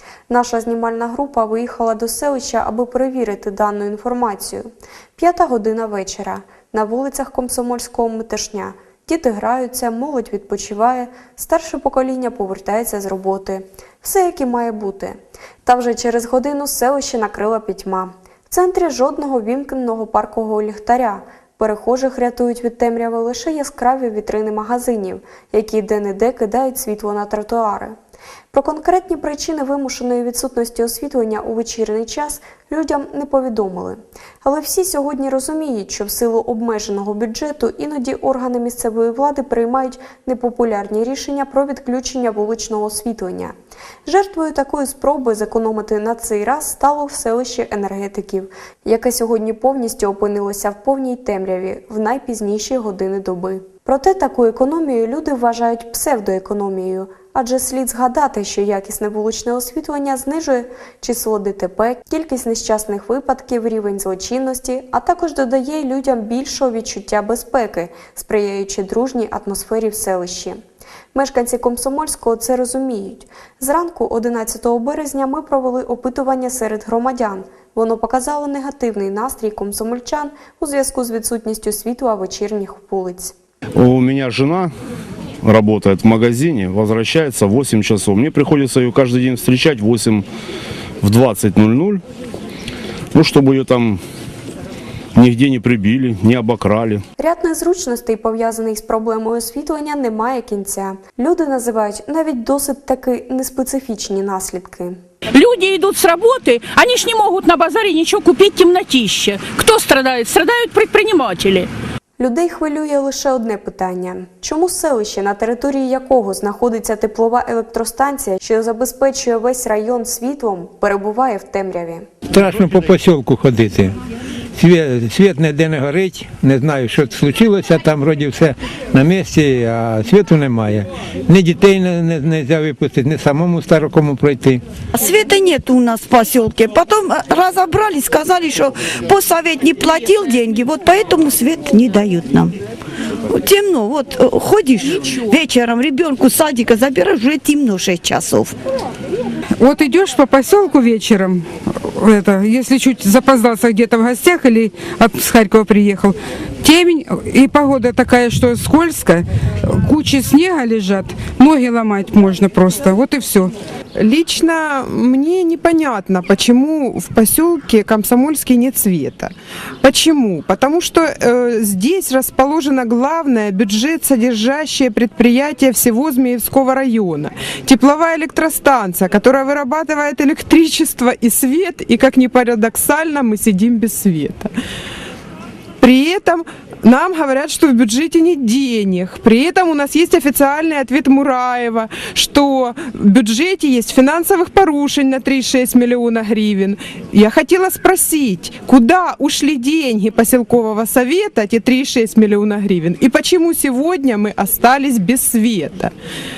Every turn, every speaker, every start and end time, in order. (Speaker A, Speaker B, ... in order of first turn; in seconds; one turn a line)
Speaker A: 0.3-28.0
Speaker A: 28.5-43.5
Speaker A: 44.1-70.6
Speaker A: 71.1-83.3
Speaker B: 83.8-84.7
Speaker B: 85.4-90.2
Speaker B: 91.0-92.0
Speaker B: 93.1-94.0
Speaker B: 95.2-97.0
Speaker A: 97.2-105.0
Speaker C: 105.3-111.7
Speaker A: 112.2-122.1
Speaker D: 122.3-123.9
Speaker D: 124.6-134.6
Speaker E: 134.9-142.5
Speaker E: 143.3-148.5
Speaker F: 149.6-163.5
Speaker G: 164.0-184.5
Speaker G: 185.8-205.9